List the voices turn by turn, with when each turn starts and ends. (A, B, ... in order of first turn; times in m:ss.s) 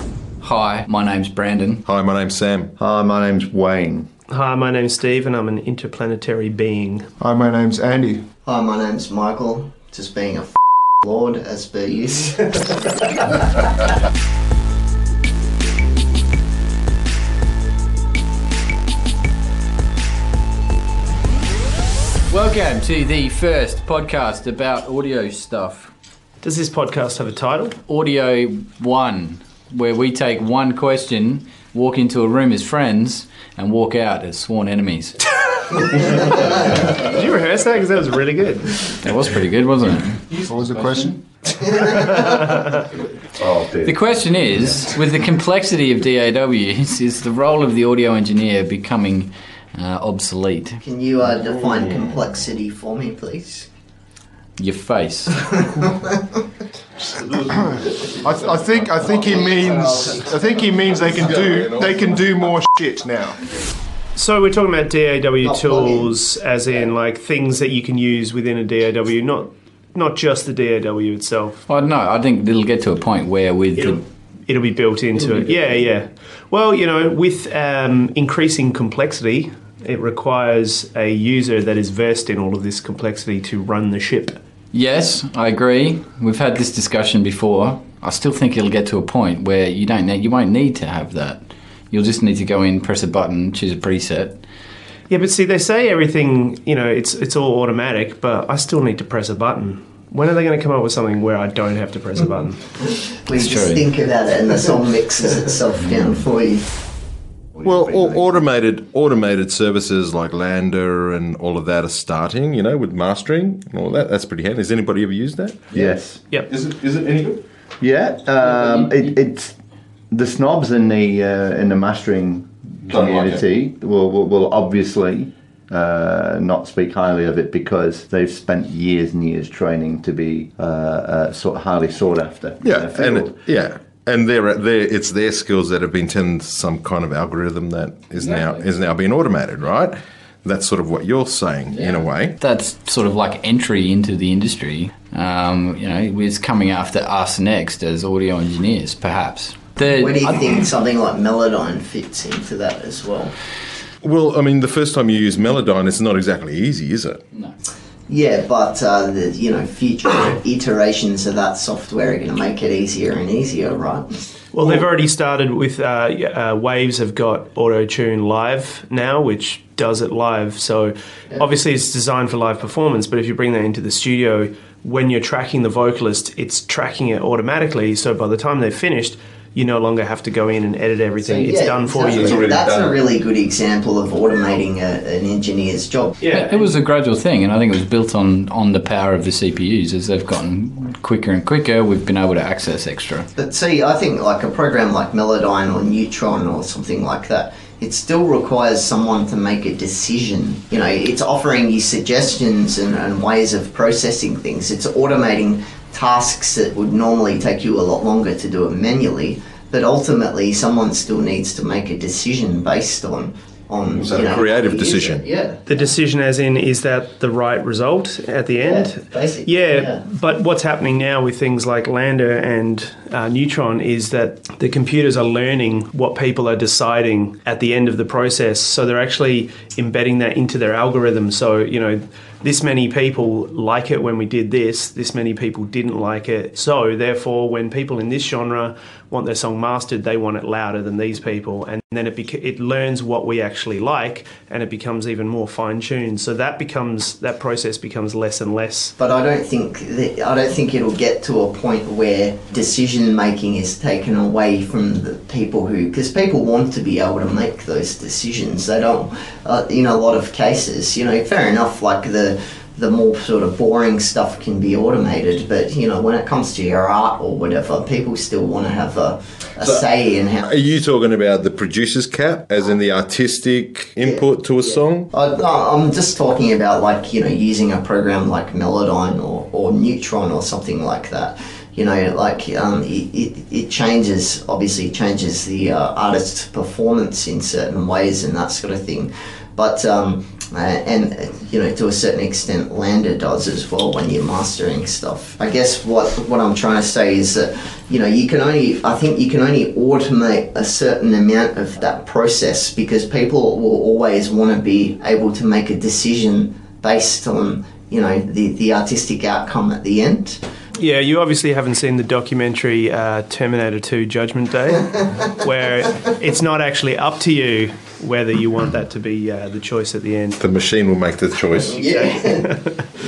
0:00.4-0:01.8 A
0:01.9-0:02.7 B
0:02.8-0:04.1 C
0:04.3-0:07.1 D
0:07.2-0:08.3 E
0:08.4-0:13.7 F
0:22.3-0:25.9 A
0:26.4-0:27.8 D
0:27.9-0:35.2 A
0:35.8-0:36.4 D
0:36.9-0:38.9 D
0:39.0-0:41.1 A
0:40.4-0:41.2 E
0:41.6-0:42.6 F
0:42.0-0:42.7 D
0:43.4-0:44.0 C
0:43.8-0:50.8 A
0:50.8-0:53.7 F
0:51.4-0:52.3 B
0:54.6-0:55.4 A
0:55.3-0:56.4 F
0:57.0-0:58.7 B
0:57.5-1:03.4 E
0:59.1-1:00.3 F
1:01.0-1:02.4 B
1:04.2-1:11.6 D
1:05.4-1:06.1 F
1:11.7-1:14.0 A
1:13.8-1:24.4 D
1:15.3-1:15.6 A
1:24.7-1:34.4 A
1:35.1-1:42.6 D
1:43.2-1:46.8 F
1:43.4-1:43.9 A
1:47.6-1:55.9 B
1:47.7-1:48.3 F
1:55.7-1:56.2 C
1:56.5-1:57.4 B
1:57.8-1:59.5 C
1:58.4-1:59.1 A
2:00.1-2:13.3 C
2:02.9-2:03.4 B
2:12.6-2:22.4 B
2:18.2-2:18.6 A
2:21.7-2:30.7 A
2:29.8-2:33.4 F
2:34.0-2:37.2 B
2:38.1-2:44.1 F
2:44.5-3:02.4 D
3:01.2-3:06.7 F
3:02.2-3:03.0 B
3:06.2-3:06.5 D
3:06.3-3:13.3 A
3:13.4-3:35.9 F
3:34.0-3:35.3 B
3:35.7-4:09.0 D
3:38.6-3:40.0 F
4:09.0-4:30.5 F
4:29.6-4:29.9 B
4:30.4-4:35.1 B
4:34.0-5:10.4 F
5:10.8-5:20.4 D
5:20.4-5:21.8 B
5:21.6-5:22.5 F
5:21.8-5:22.8 D